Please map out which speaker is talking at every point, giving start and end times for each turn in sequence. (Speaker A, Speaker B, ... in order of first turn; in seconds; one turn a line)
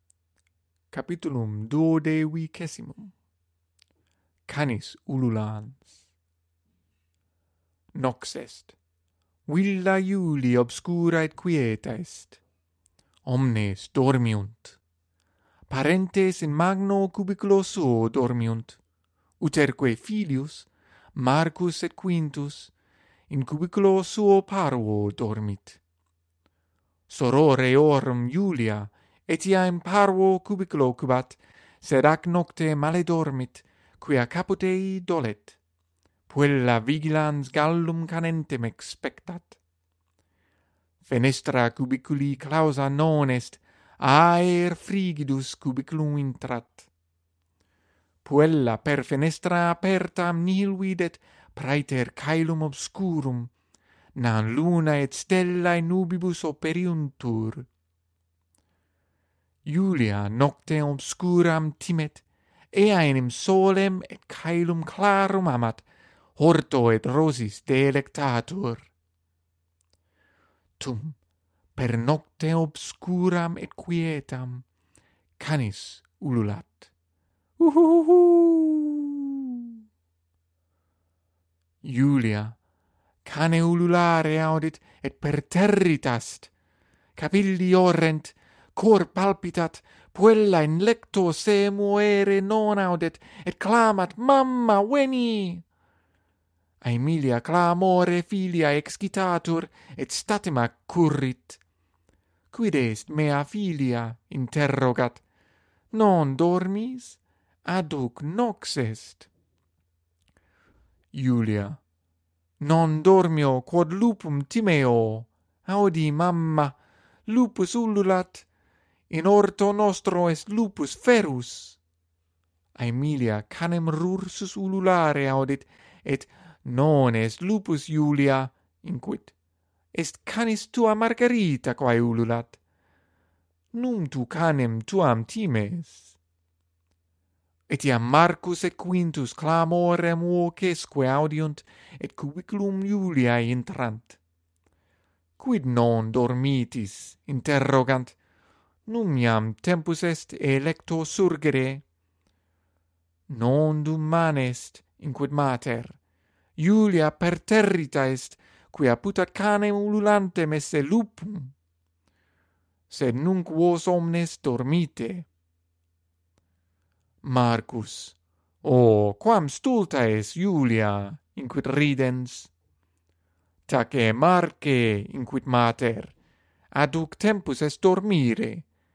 Speaker A: 0.9-3.1
Speaker A: 4.5-6.0
Speaker A: 7.9-8.8
Speaker A: 9.5-12.4
Speaker A: 13.2-14.8
Speaker A: 15.7-18.8
Speaker A: 19.4-22.7
Speaker A: 23.3-25.8
Speaker A: 27.1-35.6
Speaker A: 36.3-39.6
Speaker A: 41.0-46.9
Speaker A: 48.2-53.5
Speaker A: 54.1-57.7
Speaker A: 59.6-68.9
Speaker A: 70.8-71.2
Speaker A: 71.8-74.6
Speaker A: 75.4-76.9
Speaker A: 77.6-79.7
Speaker A: 81.8-82.5
Speaker A: 83.2-86.5
Speaker A: 87.2-95.6
Speaker A: 96.8-101.6
Speaker A: 102.5-105.2
Speaker A: 105.9-109.3
Speaker A: 111.1-111.8
Speaker A: 112.6-118.5
Speaker A: 119.1-121.8
Speaker A: 122.8-129.3
Speaker A: 129.9-132.6
Speaker A: 133.7-136.2
Speaker A: 137.7-144.2
Speaker A: 145.4-148.2
Speaker A: 148.8-151.8
Speaker A: 153.3-156.0
Speaker A: 156.6-161.5
Speaker A: 162.9-165.3
Speaker A: 167.2-172.5
Speaker A: 173.7-176.1
Speaker A: 176.7-178.6